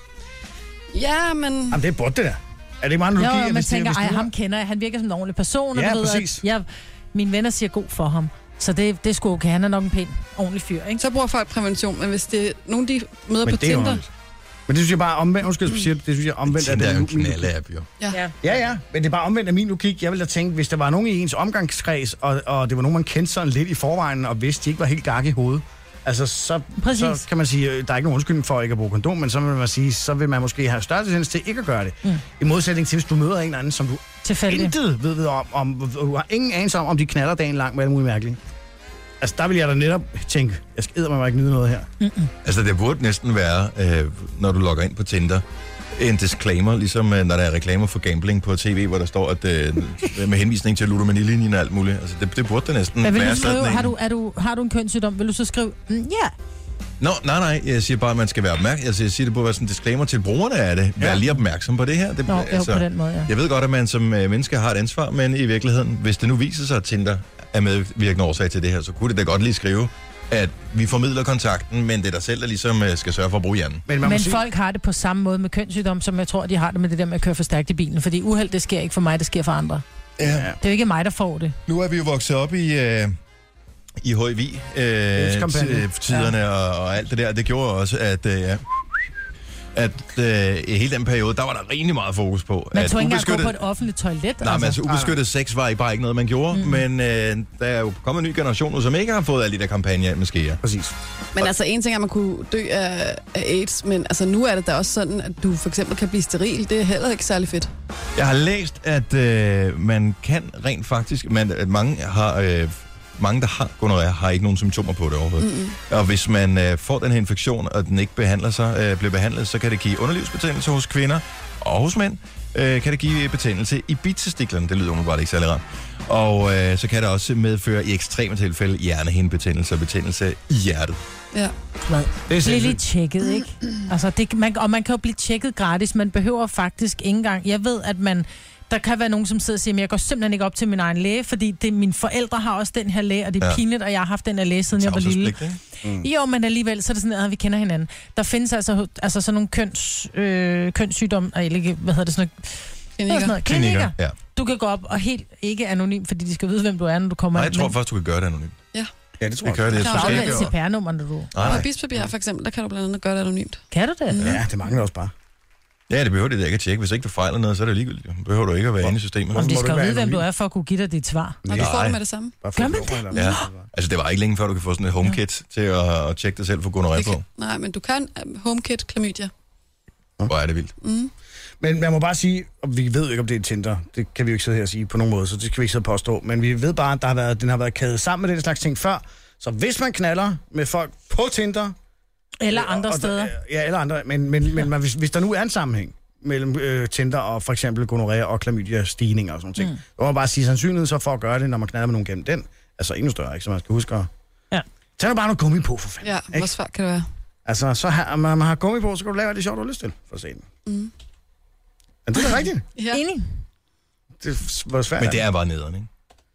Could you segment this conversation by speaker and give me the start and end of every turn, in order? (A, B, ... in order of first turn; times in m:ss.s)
0:00.9-0:01.8 A
0:01.7-0:04.3 B
0:03.2-0:11.0 C
0:05.7-0:06.4 B
0:11.0-0:14.0 A
0:13.4-0:14.1 B
0:14.7-0:17.5 B
0:16.5-0:17.9 D
0:18.4-0:38.4 B
0:26.8-0:27.2 C
0:34.2-0:34.7 C
0:39.2-0:41.9 B
0:42.0-0:42.3 C
0:42.4-0:45.4 D
0:45.9-0:53.9 D
0:53.0-0:56.3 C
0:57.0-1:13.8 D
1:01.0-1:01.2 B
1:02.3-1:03.3 C
1:13.9-1:14.4 B
1:14.0-1:19.8 C
1:20.2-1:20.5 D
1:20.2-1:20.6 B
1:20.6-1:21.6 C
1:21.7-1:23.1 D
1:24.0-1:28.7 D
1:25.1-1:25.8 B
1:29.7-1:33.6 D
1:32.7-1:34.8 C
1:34.4-1:40.6 D
1:34.8-1:35.2 B
1:36.5-1:36.8 C
1:40.6-1:40.9 B
1:41.4-1:47.7 A
1:48.2-2:11.0 D
1:55.4-1:55.8 A
2:11.9-2:25.4 C
2:12.3-2:12.8 B
2:24.8-2:25.6 D
2:26.0-2:37.7 C
2:33.0-2:33.4 A
2:33.4-2:34.1 D
2:37.3-2:38.5 D
2:39.2-2:39.9 B
2:39.4-2:40.5 D
2:39.8-2:40.5 A
2:39.8-2:41.3 C
2:41.3-2:41.7 D
2:41.4-2:44.3 A
2:43.7-2:44.2 C
2:44.2-2:45.1 B
2:45.9-2:49.4 D
2:48.8-2:50.2 B
2:49.3-2:51.4 C
2:51.4-2:51.9 B
2:51.5-2:52.3 A
2:51.5-2:52.0 D
2:52.4-2:53.7 B
2:52.6-2:53.4 C
2:53.1-2:57.2 D
2:56.9-2:59.3 A
3:00.3-3:00.7 D
3:00.8-3:01.1 A
3:01.6-3:11.7 B
3:12.4-3:13.3 C
3:12.5-3:24.1 B
3:25.0-3:26.5 B
3:26.0-3:27.0 A
3:27.4-3:30.4 B
3:30.6-3:30.9 A
3:32.0-3:32.6 B
3:32.8-3:33.0 A
3:32.9-3:33.2 C
3:34.2-3:35.2 B
3:35.0-3:35.9 D